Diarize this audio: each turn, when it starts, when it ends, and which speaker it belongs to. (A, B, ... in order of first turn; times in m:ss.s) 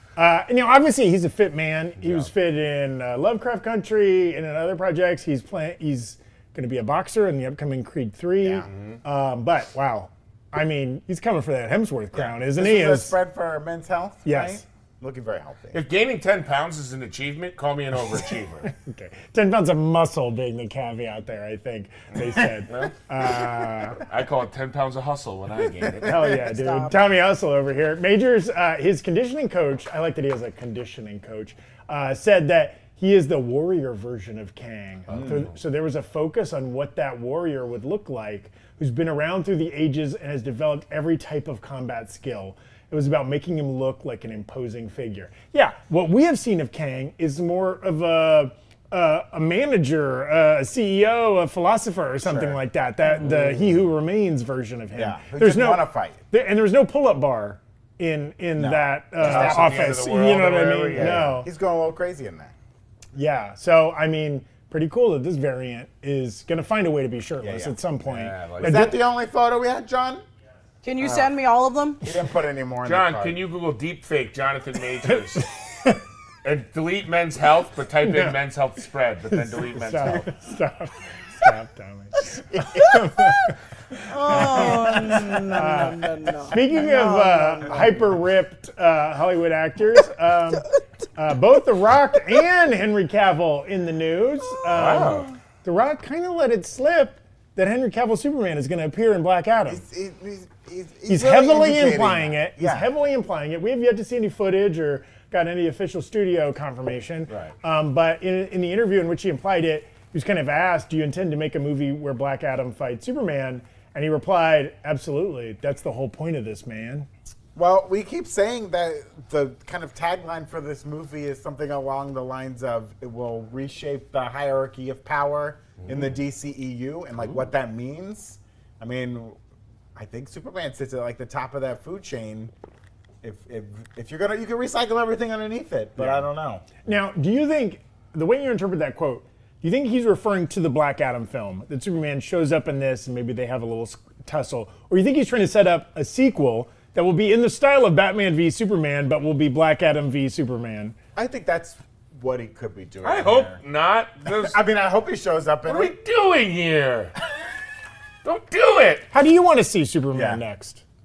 0:00.2-0:13.2 A
0:02.0-0:02.3 B
0:08.4-0:08.7 C
0:08.7-0:09.0 B
0:12.1-0:15.8 C
0:14.2-0:14.6 A
0:15.7-0:18.7 B
0:18.6-0:24.0 A
0:24.0-0:26.2 B
0:26.0-1:01.5 A
0:26.3-0:27.0 D
0:35.1-0:35.5 B
0:35.1-0:35.4 C
0:52.2-0:52.6 C
0:55.0-0:56.2 C
0:58.5-1:00.0 C
0:59.2-1:01.4 B
1:00.9-1:02.5 C
1:03.1-1:09.0 A
1:07.4-1:07.8 C
1:08.0-1:08.9 B
1:08.6-1:10.2 C
1:10.8-1:12.0 D
1:12.0-1:13.4 C
1:12.8-1:15.5 B
1:16.4-1:20.3 B
1:18.0-1:18.4 A
1:19.3-1:23.5 A
1:22.5-1:23.3 C
1:24.1-1:27.9 D
1:24.3-1:39.8 A
1:24.4-1:25.4 C
1:34.6-1:35.2 D
1:34.7-1:35.3 B
1:39.7-1:42.9 C
1:41.1-1:57.1 A
1:57.5-2:09.4 C
2:09.9-2:12.5 C
2:13.2-2:16.7 C
2:16.8-2:31.0 A
2:31.1-2:33.6 C
2:33.0-2:34.6 B
2:34.2-2:36.0 C
2:35.6-2:37.1 B
2:38.2-2:39.1 B
2:39.1-2:40.8 A
2:40.1-2:40.4 C